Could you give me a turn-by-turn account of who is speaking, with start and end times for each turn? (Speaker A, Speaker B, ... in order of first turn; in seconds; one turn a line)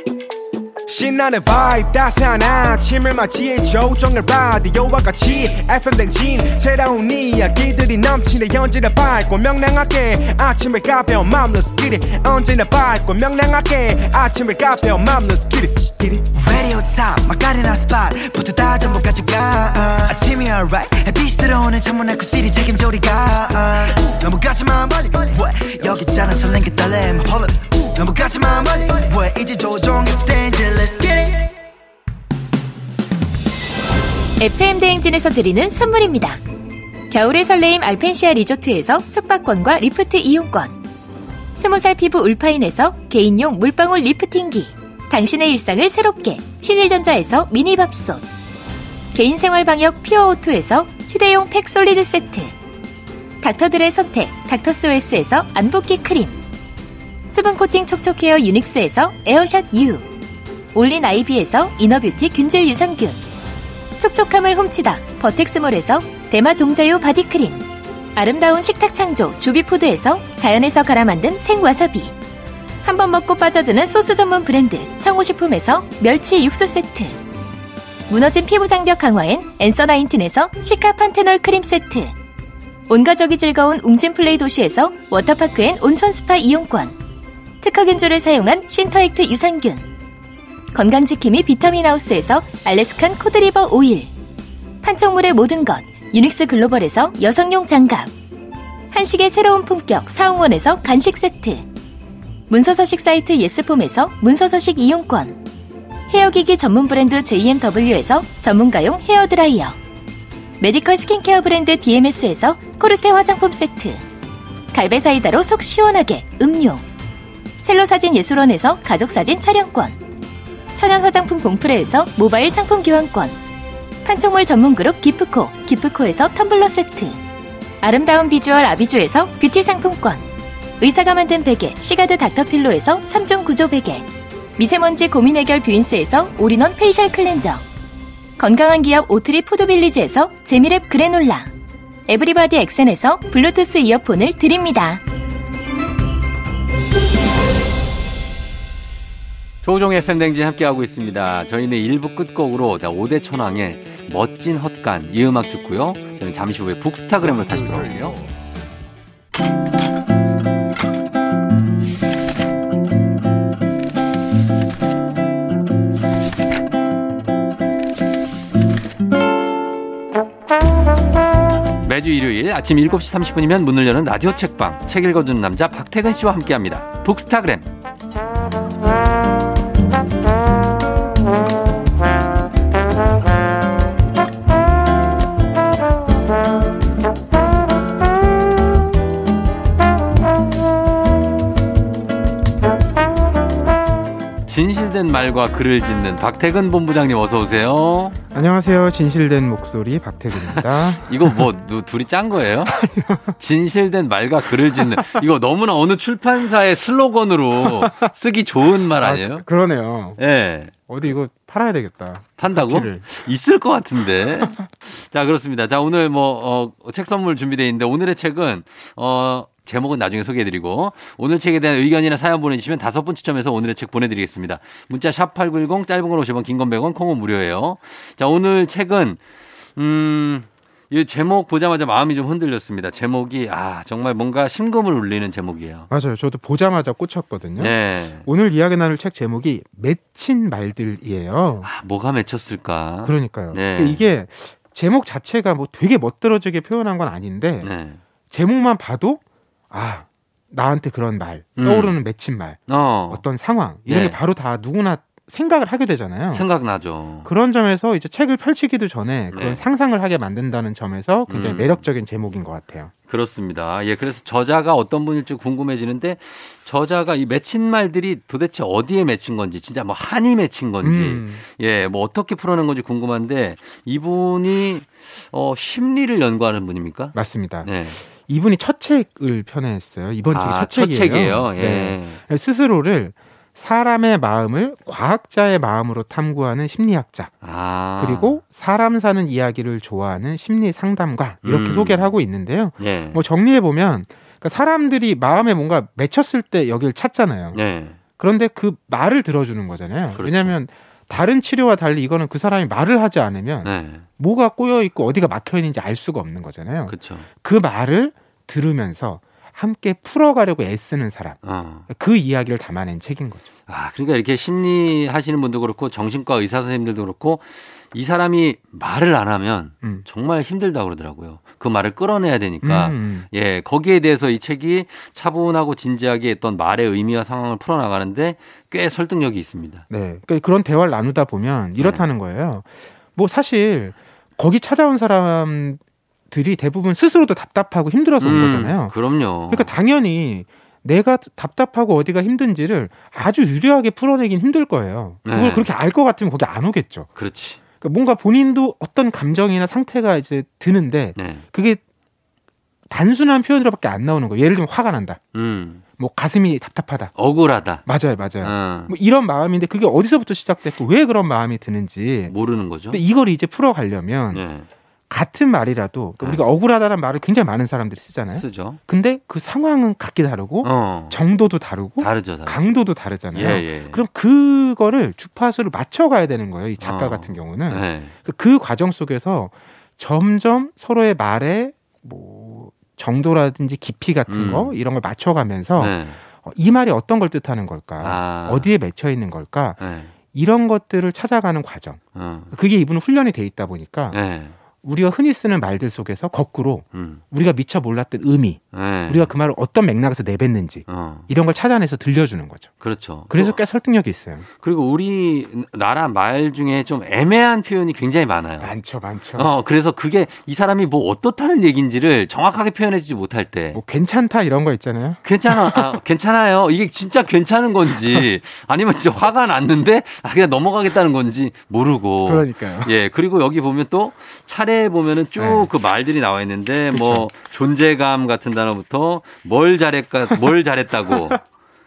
Speaker A: 0.9-16.2
Speaker B: 16.3-31.5
Speaker C: 34.4-36.4
Speaker C: 37.1-40.8
Speaker C: 41.5-48.2
Speaker C: 49.1-52.5
Speaker C: 53.4-56.4
Speaker C: 57.3-60.0
Speaker C: 60.7-63.2
Speaker C: 64.0-72.1
Speaker C: 72.8-77.2
Speaker C: 78.1-82.1
Speaker C: 82.9-86.9
Speaker C: 87.6-89.9
Speaker C: 90.7-94.1
Speaker C: 94.8-98.1
Speaker C: 98.9-101.7
Speaker C: 102.5-105.4
Speaker C: 106.1-109.8
Speaker C: 110.6-114.0
Speaker C: 114.7-116.8
Speaker C: 117.6-120.0
Speaker C: 120.7-123.4
Speaker C: 124.0-127.2
Speaker C: 127.8-130.2
Speaker C: 130.8-137.6
Speaker C: 138.4-141.5
Speaker C: 142.1-145.0
Speaker D: 149.6-158.2
Speaker E: 157.2-158.1
Speaker D: 171.8-177.7
Speaker D: 194.4-198.2
Speaker E: 198.3-201.4
Speaker D: 200.5-202.8
Speaker E: 202.7-203.3
Speaker D: 203.4-209.5
Speaker E: 204.8-205.2
Speaker E: 207.6-208.1
Speaker E: 209.0-210.2
Speaker D: 210.2-210.7
Speaker E: 210.9-213.0
Speaker D: 212.4-229.2
Speaker D: 229.8-235.9
Speaker E: 235.9-241.7
Speaker D: 237.6-238.2
Speaker D: 241.6-244.0
Speaker E: 243.0-247.7
Speaker D: 247.6-248.0
Speaker E: 248.3-256.4
Speaker D: 251.6-251.9
Speaker D: 252.7-253.2
Speaker D: 253.9-254.2
Speaker D: 256.3-257.3
Speaker E: 257.2-262.9
Speaker D: 259.3-259.6
Speaker D: 261.3-261.8
Speaker D: 263.1-278.0
Speaker E: 270.8-271.4
Speaker E: 277.1-287.3
Speaker D: 280.3-282.2
Speaker D: 287.4-288.4
Speaker E: 288.0-297.6
Speaker D: 291.4-292.1
Speaker D: 292.8-293.2
Speaker D: 297.5-298.0
Speaker E: 298.2-311.4
Speaker D: 300.1-300.6
Speaker D: 303.6-304.0
Speaker D: 306.9-307.3
Speaker D: 311.4-311.9
Speaker E: 311.9-313.5
Speaker D: 313.7-329.8
Speaker E: 322.6-323.3
Speaker E: 329.9-338.9
Speaker D: 331.8-332.0
Speaker D: 338.2-339.7
Speaker E: 339.5-347.1
Speaker D: 345.2-345.7
Speaker D: 347.1-347.6
Speaker E: 347.8-351.8
Speaker D: 351.1-351.4
Speaker E: 352.9-355.2
Speaker D: 355.3-355.8
Speaker E: 356.0-357.1
Speaker D: 357.1-357.9
Speaker E: 357.9-362.3
Speaker D: 358.4-358.9
Speaker D: 362.3-363.0
Speaker E: 362.9-364.4
Speaker D: 364.3-364.7
Speaker E: 365.1-389.8
Speaker D: 368.3-368.8
Speaker D: 370.6-371.2
Speaker D: 372.0-372.7
Speaker D: 373.3-374.0
Speaker D: 376.8-378.1
Speaker D: 384.3-384.7
Speaker D: 385.8-386.2
Speaker D: 388.0-388.7
Speaker D: 389.8-390.1
Speaker E: 390.3-392.0
Speaker D: 392.1-392.5
Speaker E: 392.5-394.2
Speaker D: 394.1-394.5
Speaker E: 394.8-402.7
Speaker D: 396.9-397.2
Speaker D: 398.7-399.3
Speaker D: 400.9-401.3
Speaker D: 402.8-403.6
Speaker E: 403.3-404.5
Speaker D: 404.6-408.7
Speaker E: 408.6-409.5
Speaker D: 409.4-413.8
Speaker E: 413.7-416.0
Speaker D: 415.2-431.4
Speaker E: 422.2-422.9
Speaker E: 425.4-425.7
Speaker E: 426.9-427.3